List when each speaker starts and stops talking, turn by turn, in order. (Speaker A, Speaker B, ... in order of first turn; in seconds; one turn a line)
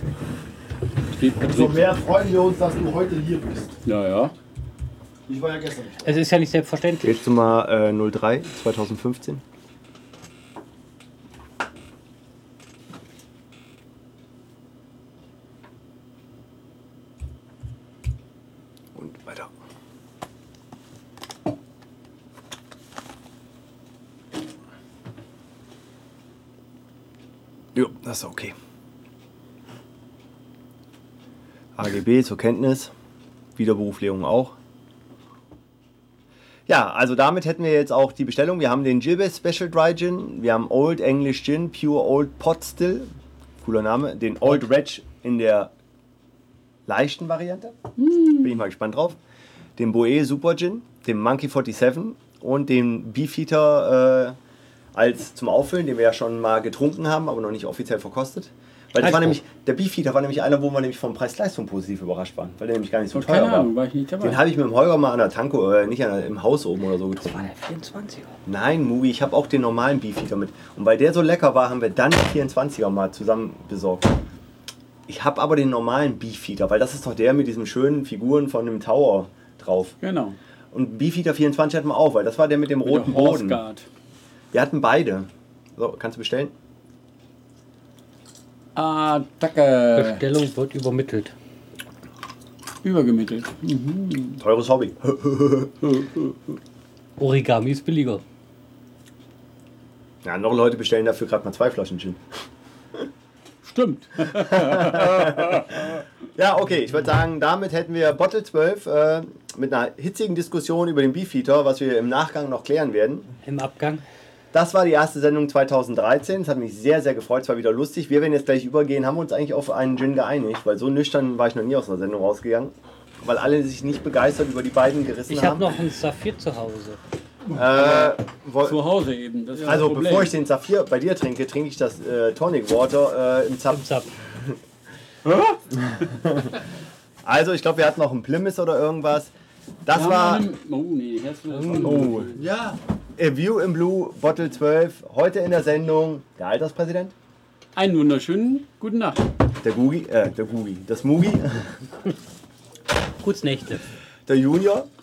Speaker A: 1.1-1.9
Speaker B: 1.4-3.8
Speaker A: 3.8-4.3
Speaker B: 5.3-6.0
Speaker C: 6.0-7.2
Speaker D: 7.0-9.4
Speaker D: 18.9-19.5
Speaker D: 27.7-28.5
Speaker D: 31.8-32.9
Speaker D: 33.5-34.5
Speaker D: 36.7-43.1
Speaker D: 43.6-45.7
Speaker D: 46.9-47.7
Speaker A: 48.0-48.5
Speaker D: 48.3-49.2
Speaker D: 49.8-54.4
Speaker D: 54.9-67.5
Speaker C: 59.0-59.3
Speaker A: 63.1-64.4
Speaker C: 67.2-68.3
Speaker D: 68.5-74.1
Speaker D: 75.1-79.9
Speaker A: 80.0-80.4
Speaker D: 80.7-83.6
Speaker A: 82.8-83.9
Speaker D: 84.5-86.5
Speaker A: 88.7-90.2
Speaker C: 89.9-91.3
Speaker A: 92.8-94.4
Speaker D: 94.4-95.7
Speaker A: 95.8-96.3
Speaker C: 97.2-98.2
Speaker D: 100.2-102.2
Speaker A: 103.6-106.0
Speaker D: 104.4-113.3
Speaker C: 113.4-114.0
Speaker D: 114.5-125.7
Speaker C: 125.3-127.0
Speaker D: 127.5-128.8
Speaker A: 128.6-130.3
Speaker D: 129.6-134.6
Speaker C: 133.7-134.1
Speaker D: 135.9-136.5
Speaker D: 137.2-139.3
Speaker D: 139.8-140.5
Speaker A: 139.9-142.5
Speaker C: 141.5-142.1
Speaker D: 141.7-142.3
Speaker B: 142.3-142.8
Speaker D: 143.2-147.1
Speaker A: 147.8-149.2
Speaker D: 149.6-151.9
Speaker C: 153.2-153.8
Speaker D: 154.3-154.9